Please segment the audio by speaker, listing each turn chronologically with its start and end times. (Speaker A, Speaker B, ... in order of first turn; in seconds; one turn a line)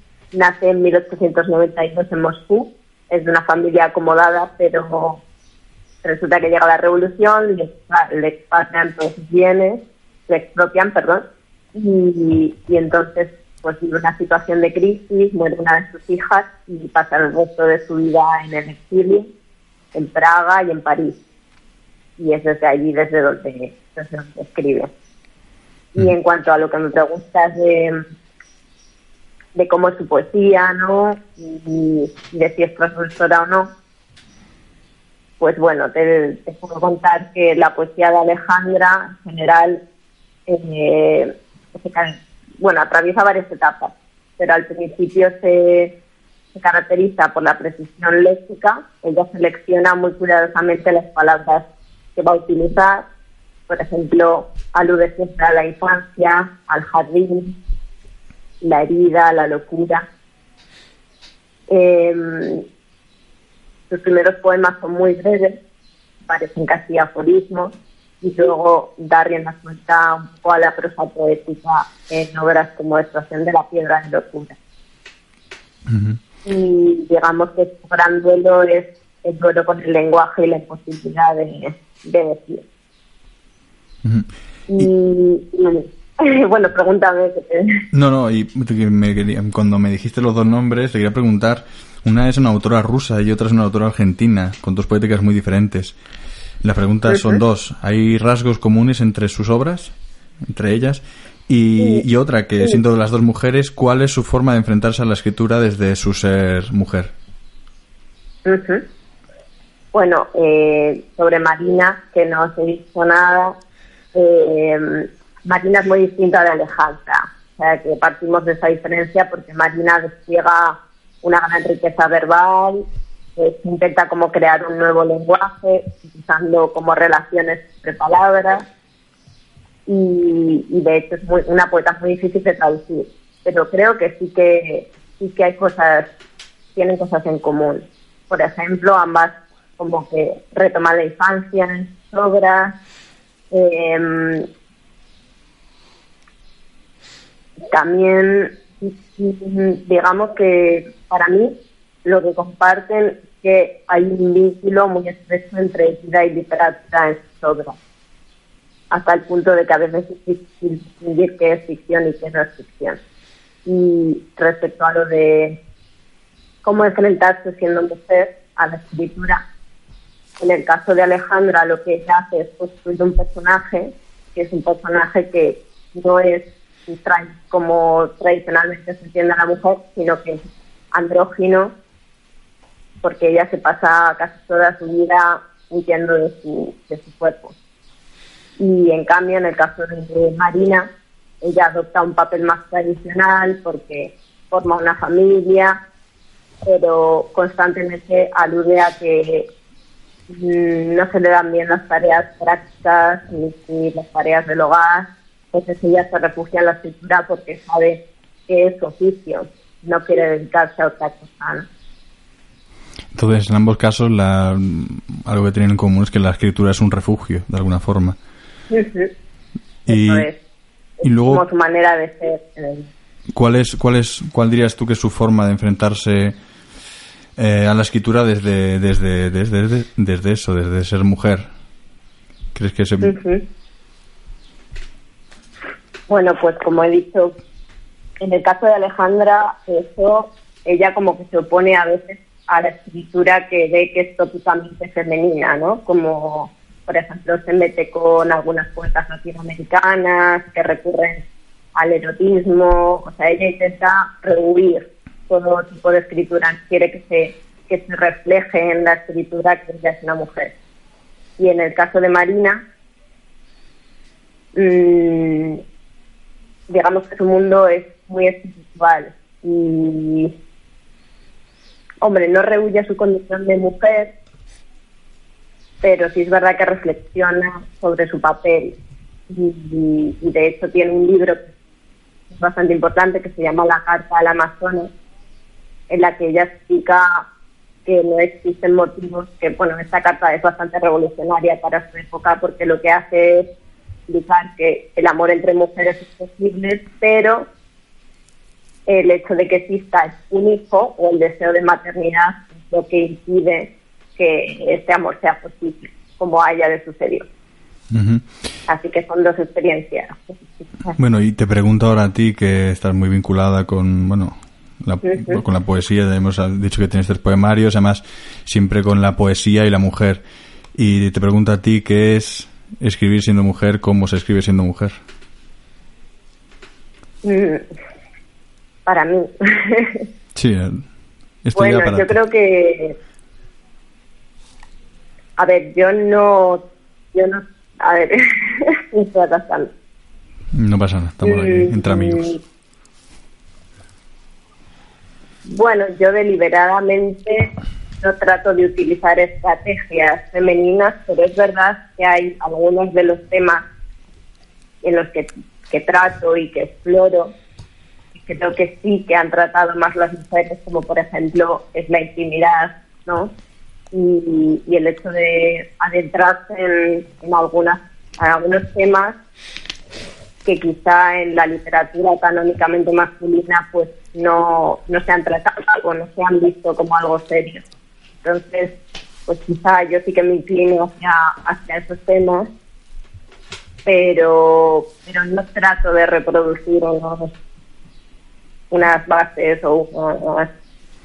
Speaker A: 0.3-5.2
Speaker A: 6.0-19.3
Speaker A: 19.9-21.2
Speaker A: 22.2-24.9
Speaker A: 25.9-28.0
Speaker A: 29.6-33.7
Speaker A: 35.4-39.8
Speaker A: 40.5-45.9
Speaker A: 46.5-53.1
Speaker A: 53.7-57.6
Speaker A: 58.6-60.1
Speaker A: 61.7-62.6
Speaker A: 63.9-65.6
Speaker A: 66.3-74.6
Speaker B: 75.9-76.2
Speaker A: 76.5-82.6
Speaker B: 84.0-84.9
Speaker A: 84.7-87.8
Speaker B: 87.9-96.0
Speaker B: 96.6-99.9
Speaker A: 97.1-97.4
Speaker B: 100.5-107.1
Speaker A: 101.8-102.0
Speaker A: 108.5-108.8
Speaker A: 109.9-113.5
Speaker A: 114.1-122.8
Speaker A: 123.4-128.6
Speaker A: 129.9-136.1
Speaker A: 136.8-142.8
Speaker A: 143.5-144.5
Speaker A: 147.7-151.5
Speaker A: 152.1-157.8
Speaker A: 158.9-163.0
Speaker A: 163.7-165.6
Speaker A: 166.6-169.4
Speaker A: 170.4-180.4
Speaker A: 180.9-181.7
Speaker A: 183.0-187.6
Speaker A: 188.6-190.9
Speaker A: 191.4-195.8
Speaker A: 196.7-199.5
Speaker A: 200.3-211.7
Speaker B: 213.1-218.2
Speaker A: 218.7-219.1
Speaker A: 219.9-220.4
Speaker B: 219.9-220.3
Speaker A: 221.0-222.9
Speaker B: 221.0-221.4
Speaker B: 223.3-226.3
Speaker B: 227.4-231.5
Speaker B: 232.6-233.2
Speaker A: 233.0-233.4
Speaker A: 236.1-237.3
Speaker A: 238.2-251.2
Speaker A: 251.8-260.5
Speaker A: 261.4-262.6
Speaker A: 264.6-265.6
Speaker A: 266.7-270.3
Speaker A: 272.0-274.1
Speaker A: 275.8-278.8
Speaker A: 279.3-281.5
Speaker A: 282.3-284.9
Speaker A: 285.9-287.3
Speaker A: 287.9-293.5
Speaker A: 294.1-297.5
Speaker A: 298.9-307.3
Speaker B: 307.9-308.2
Speaker A: 308.7-311.0
Speaker B: 311.0-320.2
Speaker A: 315.0-315.4
Speaker B: 320.8-325.0
Speaker A: 327.2-327.6
Speaker A: 328.9-330.1
Speaker B: 330.4-330.8
Speaker B: 331.4-332.2
Speaker A: 331.6-333.0
Speaker A: 335.4-336.6
Speaker A: 337.1-339.7
Speaker B: 340.6-342.3
Speaker A: 341.2-342.4
Speaker A: 345.4-347.5
Speaker A: 348.0-353.6
Speaker A: 354.8-357.3
Speaker A: 358.1-363.3
Speaker A: 363.9-369.2
Speaker A: 370.4-377.6
Speaker A: 378.2-378.7
Speaker A: 379.3-382.5
Speaker A: 383.9-387.3
Speaker A: 388.7-390.5